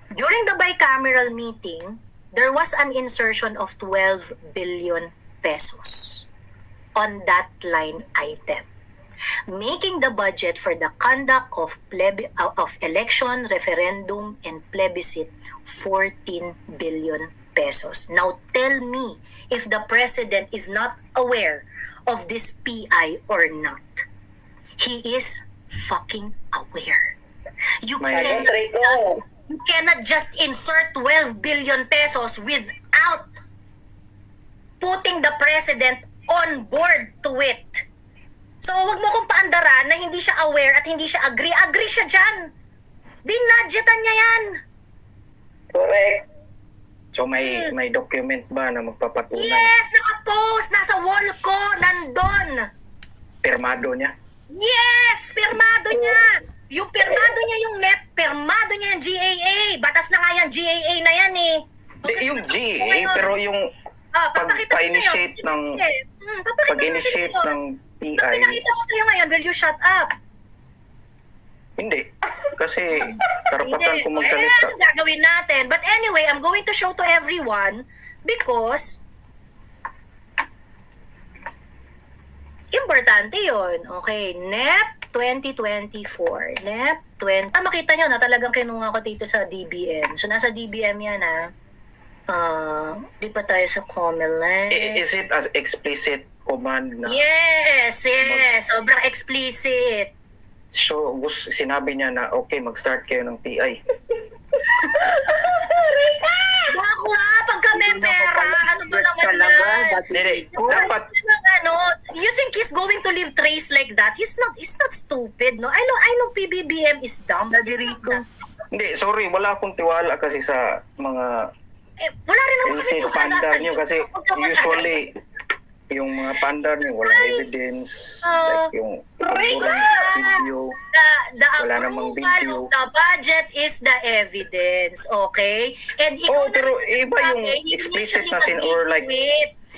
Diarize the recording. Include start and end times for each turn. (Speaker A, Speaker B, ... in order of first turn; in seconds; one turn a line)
Speaker A: 0.1-6.3
Speaker A: 7.0-8.7
Speaker A: 9.5-24.1
Speaker A: 24.8-27.1
Speaker A: 27.8-33.3
Speaker B: 28.0-28.5
Speaker C: 28.1-29.2
Speaker A: 34.8-37.9
Speaker A: 38.6-42.5
Speaker A: 43.2-44.6
Speaker C: 45.7-46.2
Speaker B: 47.1-49.7
Speaker A: 47.4-47.7
Speaker A: 49.3-52.7
Speaker B: 53.4-54.1
Speaker A: 54.5-63.3
Speaker C: 55.9-56.2
Speaker B: 62.0-63.7
Speaker A: 64.2-67.6
Speaker B: 64.3-65.8
Speaker B: 66.7-68.6
Speaker A: 68.2-70.1
Speaker B: 71.8-74.7
Speaker A: 72.9-79.0
Speaker A: 82.7-91.5
Speaker A: 92.3-95.0
Speaker B: 94.7-97.2
Speaker A: 97.1-100.1
Speaker B: 100.7-103.8
Speaker C: 105.0-106.7
Speaker A: 106.7-110.0
Speaker C: 107.8-110.6
Speaker B: 110.1-111.1
Speaker A: 110.6-118.2
Speaker C: 117.5-118.2
Speaker B: 118.7-121.5
Speaker A: 122.0-124.9
Speaker B: 122.7-125.1
Speaker B: 125.9-130.8
Speaker A: 126.8-127.5
Speaker A: 128.2-128.7
Speaker A: 129.3-139.5
Speaker B: 131.6-132.7
Speaker B: 136.3-139.1